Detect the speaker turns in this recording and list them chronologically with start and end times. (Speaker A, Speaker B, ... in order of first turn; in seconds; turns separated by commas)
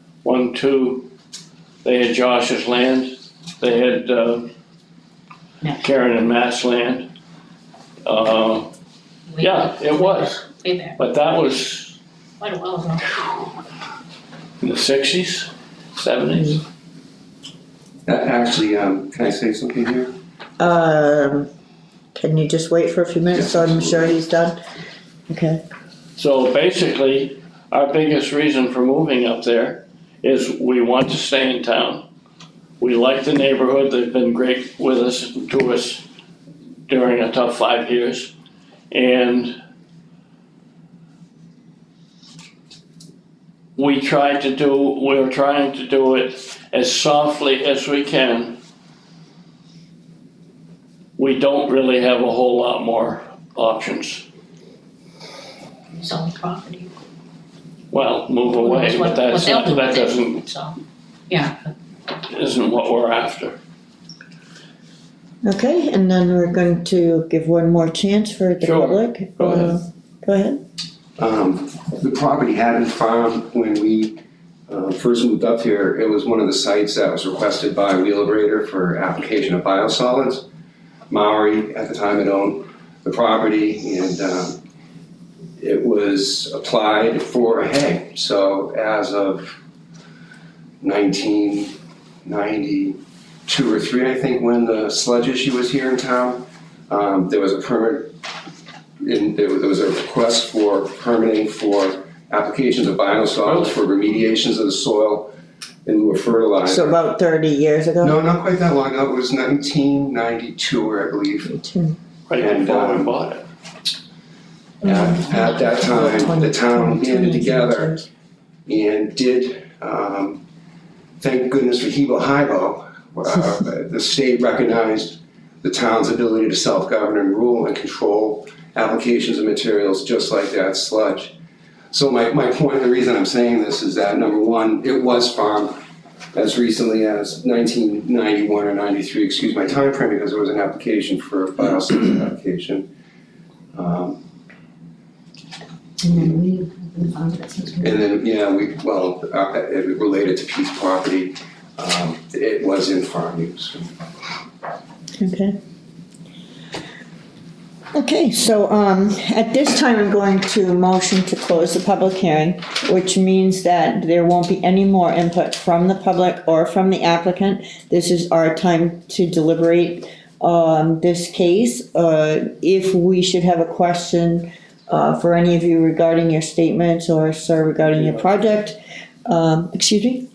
Speaker A: 0.2-1.1, Speaker A: 1.8-4.5, Speaker B: 5.6-5.9, Speaker A: 5.8-7.1, Speaker A: 8.1-8.7, Speaker B: 9.3-11.0, Speaker A: 9.4-10.4, Speaker A: 11.0-12.0, Speaker B: 12.4-13.1, Speaker A: 14.6-16.6, Speaker C: 16.3-16.6, Speaker D: 18.1-20.1, Speaker C: 20.6-21.5, Speaker C: 22.1-24.6, Speaker D: 23.4-24.1, Speaker C: 25.3-25.6, Speaker A: 26.2-32.0, Speaker A: 32.8-36.0, Speaker A: 36.9-38.3, Speaker A: 38.9-39.5, Speaker A: 43.8-48.6, Speaker A: 51.2-54.2, Speaker B: 55.9-56.9, Speaker A: 57.9-60.4, Speaker B: 58.5-60.8, Speaker B: 61.3-61.7, Speaker A: 62.2-63.6, Speaker C: 65.4-70.6, Speaker A: 68.6-69.7, Speaker D: 71.2-80.5, Speaker D: 81.1-84.6, Speaker D: 85.6-89.6, Speaker D: 90.8-91.7, Speaker D: 92.2-98.1, Speaker D: 99.0-105.3, Speaker A: 103.4-103.8, Speaker D: 105.8-107.0, Speaker C: 106.7-108.2, Speaker D: 108.0-111.5, Speaker C: 111.5-112.0, Speaker A: 112.3-113.5, Speaker D: 112.4-113.2, Speaker D: 114.8-118.0, Speaker C: 114.8-118.1, Speaker D: 118.7-120.4, Speaker D: 121.2-131.3, Speaker D: 131.9-135.8, Speaker D: 136.3-142.9, Speaker D: 143.7-144.2, Speaker C: 146.0-148.0, Speaker D: 147.8-154.0, Speaker C: 155.2-155.6, Speaker C: 157.9-180.3